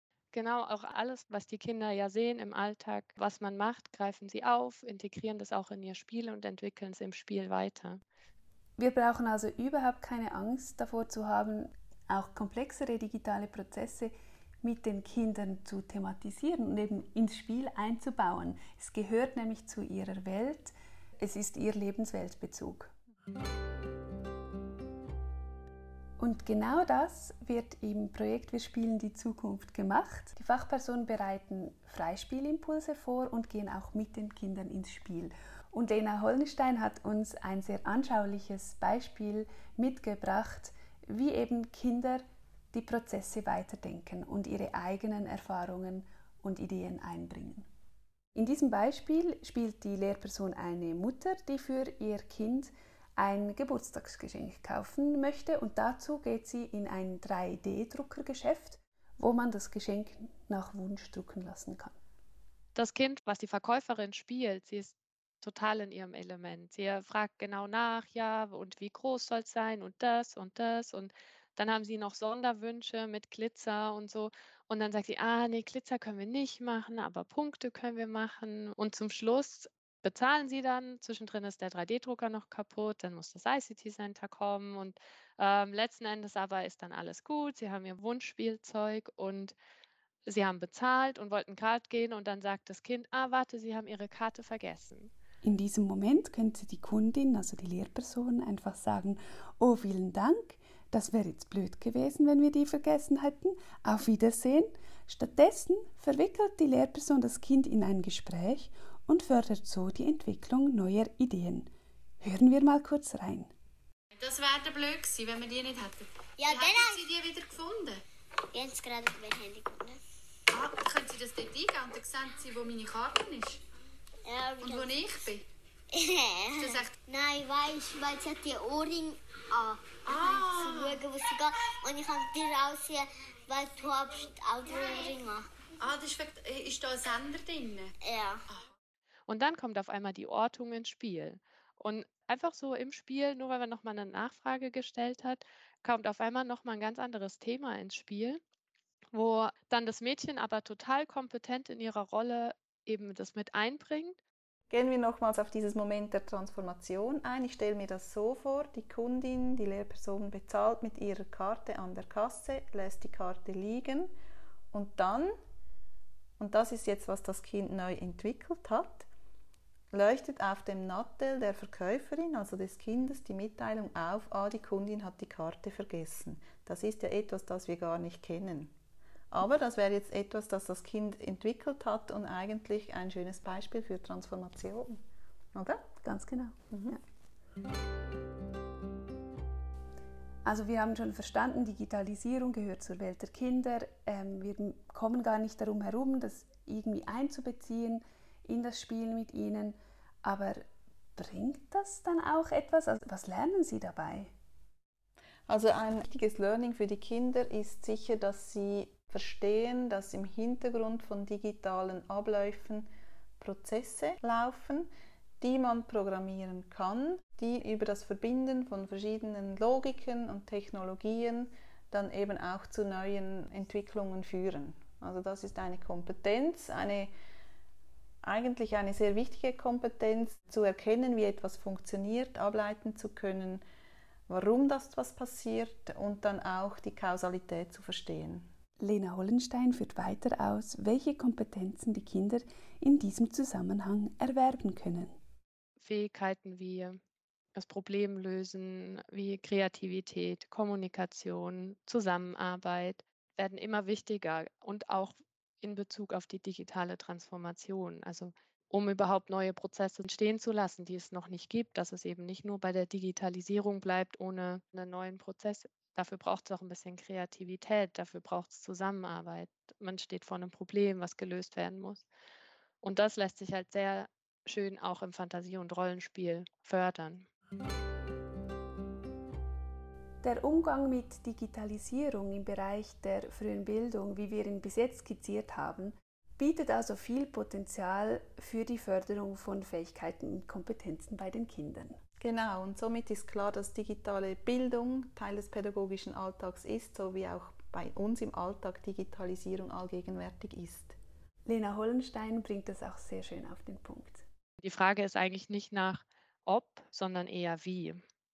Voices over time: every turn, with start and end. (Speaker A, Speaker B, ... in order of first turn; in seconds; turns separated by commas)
Speaker A: 0.3-8.0, Speaker B: 8.8-22.9, Speaker B: 26.2-47.7, Speaker B: 48.4-62.0, Speaker A: 62.8-89.6, Speaker A: 90.3-95.1, Speaker B: 95.4-111.7, Speaker B: 112.2-113.5, Speaker C: 114.2-118.0, Speaker D: 116.4-117.2, Speaker D: 118.5-120.0, Speaker C: 120.5-123.6, Speaker D: 124.2-135.5, Speaker C: 124.7-125.5, Speaker C: 130.1-130.9, Speaker C: 135.8-137.9, Speaker D: 138.0-138.6, Speaker A: 139.3-148.4, Speaker A: 149.1-154.2, Speaker E: 154.7-164.1, Speaker E: 164.7-165.3, Speaker E: 166.4-169.1, Speaker E: 169.9-178.7, Speaker E: 179.3-185.0, Speaker E: 185.5-185.8, Speaker B: 186.0-187.0, Speaker B: 190.4-204.3, Speaker E: 205.5-212.9, Speaker E: 213.4-214.9, Speaker E: 215.4-227.1, Speaker E: 228.2-233.6, Speaker E: 234.3-238.5, Speaker B: 238.8-245.2, Speaker A: 245.8-247.0, Speaker A: 247.6-272.1, Speaker A: 272.8-277.3, Speaker B: 280.2-292.0, Speaker E: 292.2-301.0, Speaker B: 301.5-304.2, Speaker A: 304.6-308.0